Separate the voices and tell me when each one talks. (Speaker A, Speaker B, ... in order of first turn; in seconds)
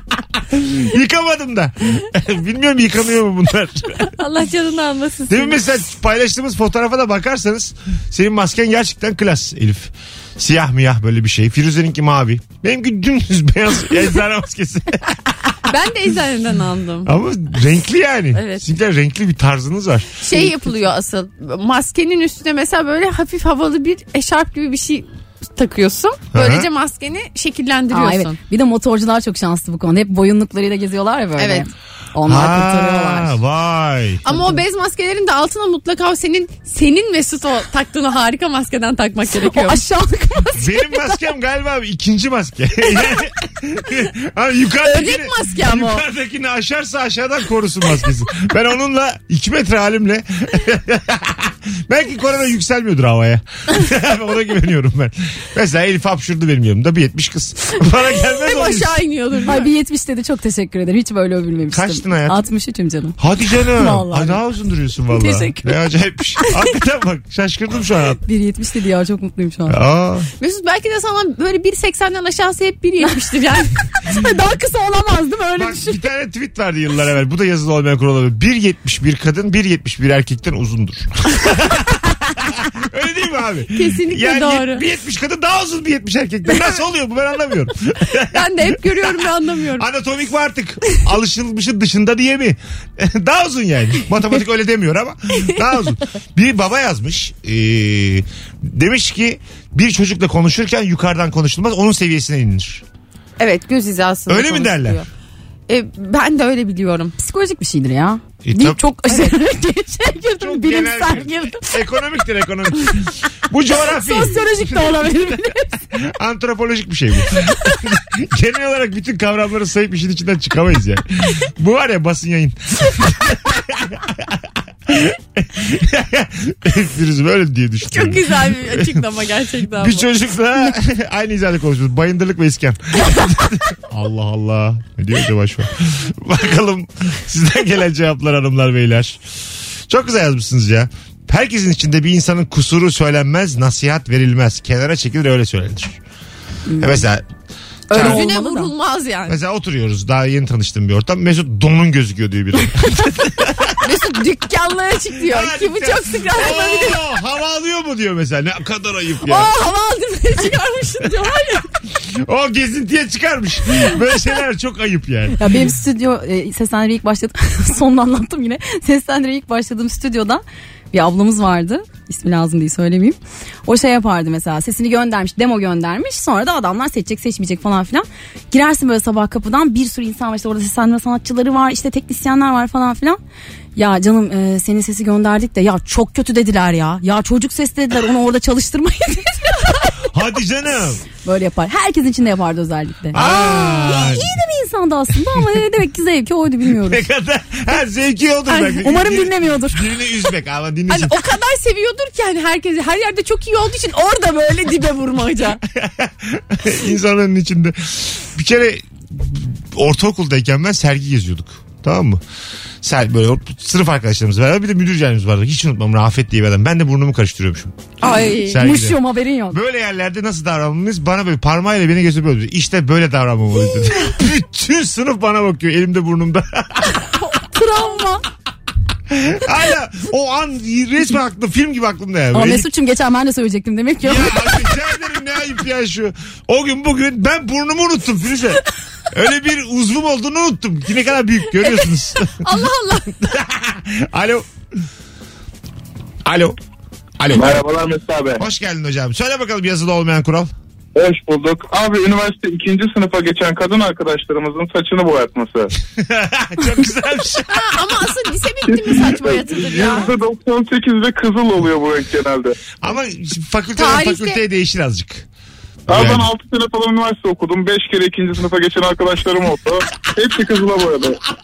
Speaker A: 0.5-4.1, 5.3-15.5, 17.0-20.2, 26.3-26.7, 32.2-34.2, 40.6-59.0, 61.7-62.4, 63.2-68.2, 69.7-70.3, 75.5-89.2, 89.8-102.8, 104.3-105.0, 108.4-108.8, 110.4-115.3, 115.9-129.0, 129.8-139.2, 139.9-146.0, 146.8-147.2, 147.9-148.3, 149.3-153.9, 155.2-159.5, 161.9-165.5, 190.1-191.0, 193.1-194.3, 196.8-201.2, 205.7-212.2, 212.8-217.7, 218.4-227.0, 229.1-232.7, 234.0-242.5, 243.1-244.5, 246.2-246.6, 247.2-247.6, 248.4-250.5, 255.9-257.7, 262.8-265.3, 265.9-266.3
Speaker B: 4.0-5.6, 15.7-17.2, 18.3-18.6, 20.2-28.4, 31.4-31.7, 34.2-39.8, 44.8-46.0, 58.2-59.7, 70.4-73.8, 83.7-84.8, 88.3-89.8, 103.4-105.1, 105.7-107.1, 127.9-130.1, 147.9-149.4, 153.8-157.0, 159.2-161.7, 198.5-198.8, 200.9-205.6, 218.0-218.6, 242.4-243.2, 257.5-260.1, 263.8-264.4
Speaker C: 27.9-33.4, 34.3-34.6, 39.4-41.2, 59.5-63.1, 63.7-64.4, 65.1-65.7, 68.2-69.8, 74.0-76.0, 107.2-111.7, 113.9-115.7, 146.7-147.0, 147.9-148.7, 165.3-183.2, 183.8-189.9, 191.2-197.0, 198.8-199.8, 218.6-219.6, 227.3-228.2, 232.3-234.7
Speaker D: 247.3-248.4, 250.9-255.7, 258.9-262.5, 265.9-271.2